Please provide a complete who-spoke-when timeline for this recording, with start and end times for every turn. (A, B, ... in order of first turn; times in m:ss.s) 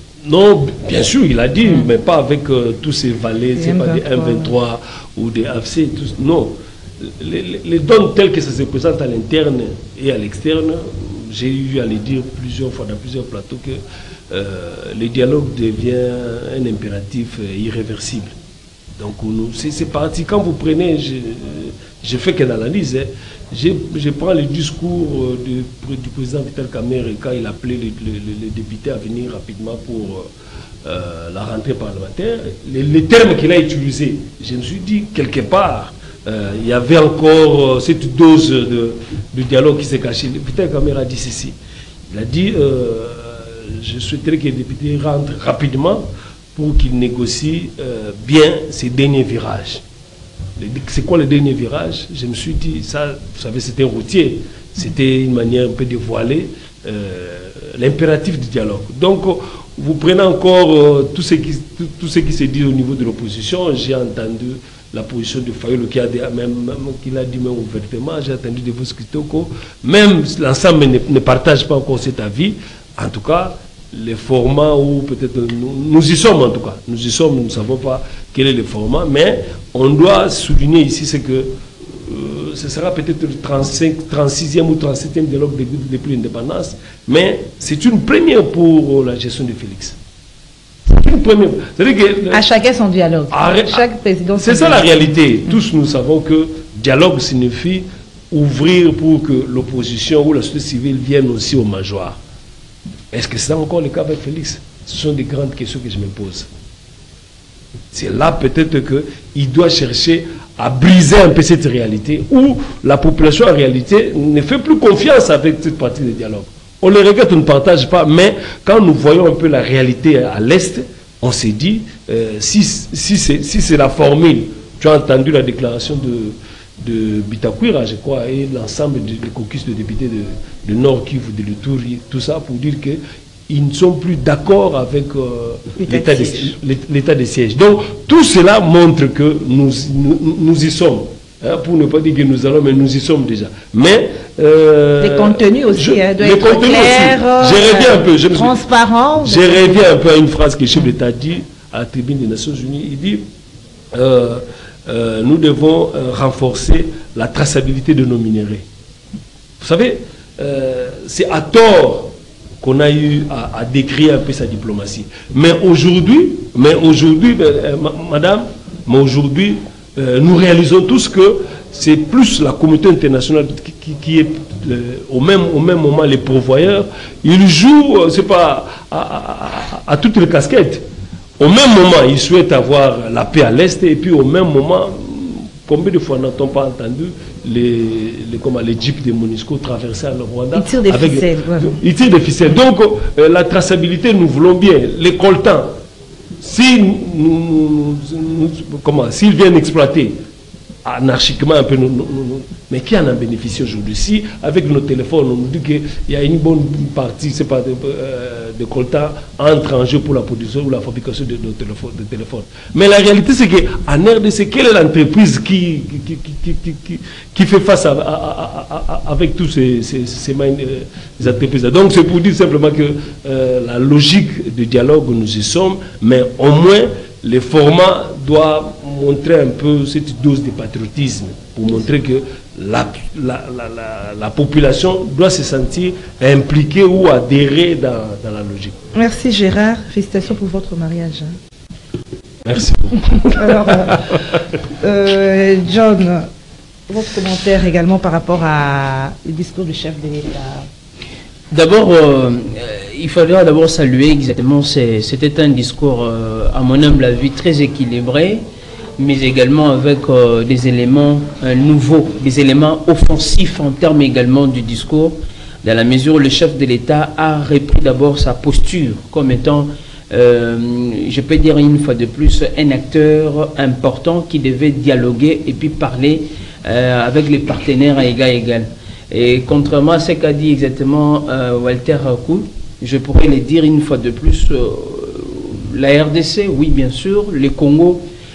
0:00.2-0:18.4 A
0:03.6-0:04.5 B
0:19.0-0:30.3 A
0:30.8-0:41.6 A
0:42.1-0:49.8 A
0:50.6-1:30.0 A
1:30.9-1:32.4 A
1:32.3-1:35.0 B
1:33.3-1:33.8 A
1:34.4-1:42.2 A
1:43.1-1:46.5 A
1:47.9-2:28.6 A
2:15.8-2:16.6 B
2:25.0-2:29.9 B
2:29.2-2:33.2 A
2:33.9-2:38.6 A
2:39.6-3:00.8 A
3:01.4-3:15.7 A
3:10.6-3:11.8 B
3:16.4-3:20.2 A
3:20.8-3:58.8 A
3:59.0-4:01.4 B
4:02.4-4:04.0 A
4:03.1-4:04.1 B
4:04.8-4:06.3 B
4:06.9-4:10.7 B
4:11.5-4:18.4 C
4:19.0-4:48.0 C